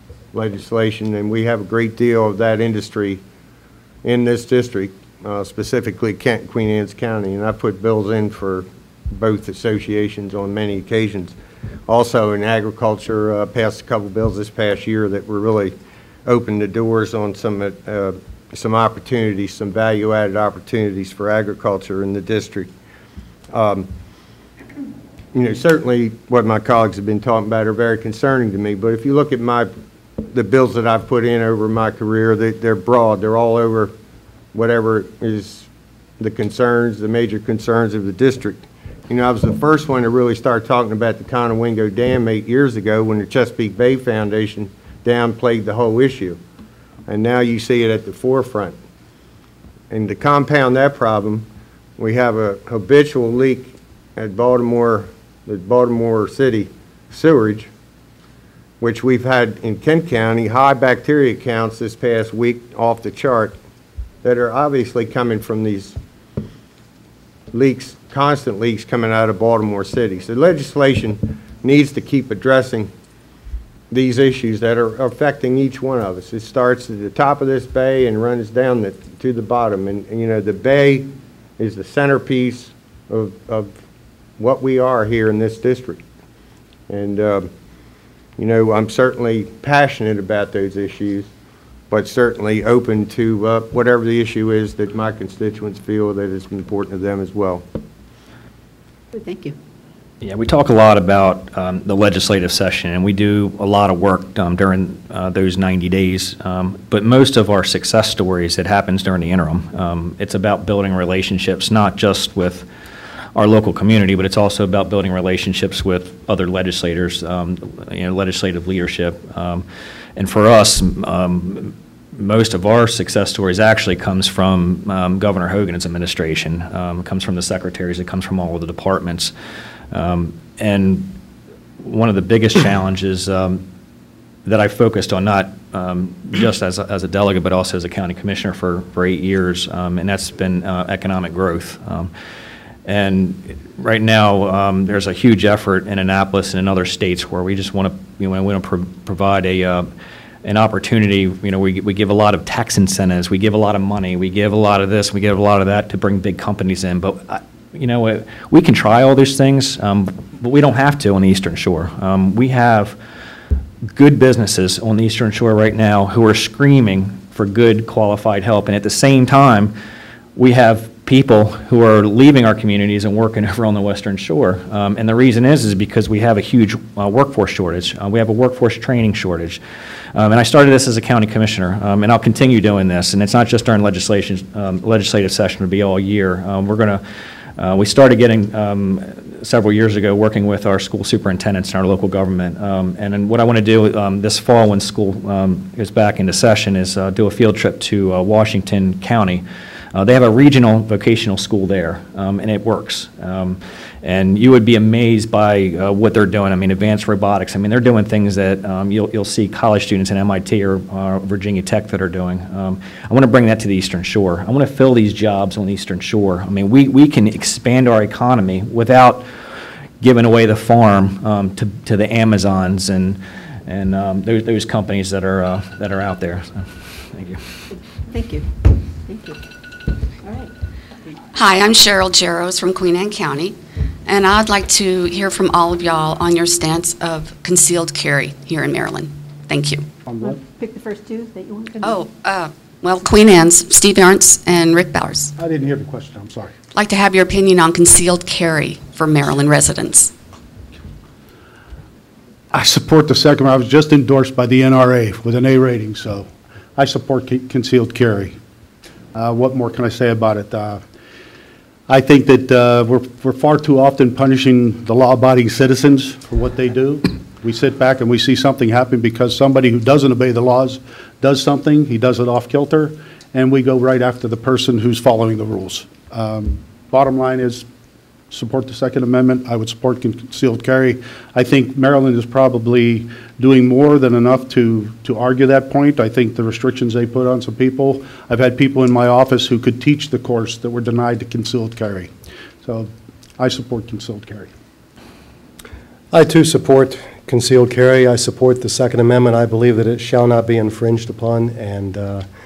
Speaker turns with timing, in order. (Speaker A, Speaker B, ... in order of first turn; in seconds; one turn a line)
Speaker A: 0.3-3.2
Speaker A: 4.0-11.3
Speaker A: 11.9-15.7
Speaker A: 16.2-22.7
Speaker A: 23.5-23.9
Speaker A: 25.3-29.7
Speaker A: 30.2-33.9
Speaker A: 34.5-35.7
Speaker A: 36.2-46.4
Speaker A: 47.1-48.8
Speaker A: 49.9-51.5
Speaker A: 52.0-57.7
Speaker A: 58.8-63.6
Speaker A: 64.2-66.0
Speaker A: 67.5-72.9
Speaker A: 73.9-83.8
Speaker A: 84.4-86.0
Speaker A: 86.9-87.5
Speaker A: 88.4-91.3
Speaker A: 91.9-97.6
Speaker B: 99.1-99.5
Speaker C: 100.2-112.7
Speaker C: 113.3-119.6
Speaker C: 120.2-129.3
Speaker C: 129.9-131.2
Speaker C: 131.8-133.7
Speaker C: 134.4-142.1
Speaker C: 142.8-149.9
Speaker C: 150.4-163.0
Speaker C: 163.9-169.7
Speaker C: 170.3-179.6
Speaker C: 180.1-187.0
Speaker C: 187.6-219.2
Speaker C: 220.0-227.4
Speaker B: 228.0-229.4
Speaker B: 230.2-230.5
Speaker D: 231.3-233.5
Speaker D: 234.1-239.8
Speaker E: 240.1-240.4
Speaker B: 240.2-241.9
Speaker D: 241.8-245.3
Speaker E: 245.4-246.5
Speaker D: 246.7-250.1
Speaker E: 252.5-258.4
Speaker E: 259.1-260.8
Speaker E: 261.9-277.6
Speaker E: 278.3-292.1
Speaker E: 292.6-294.5
Speaker F: 296.1-302.2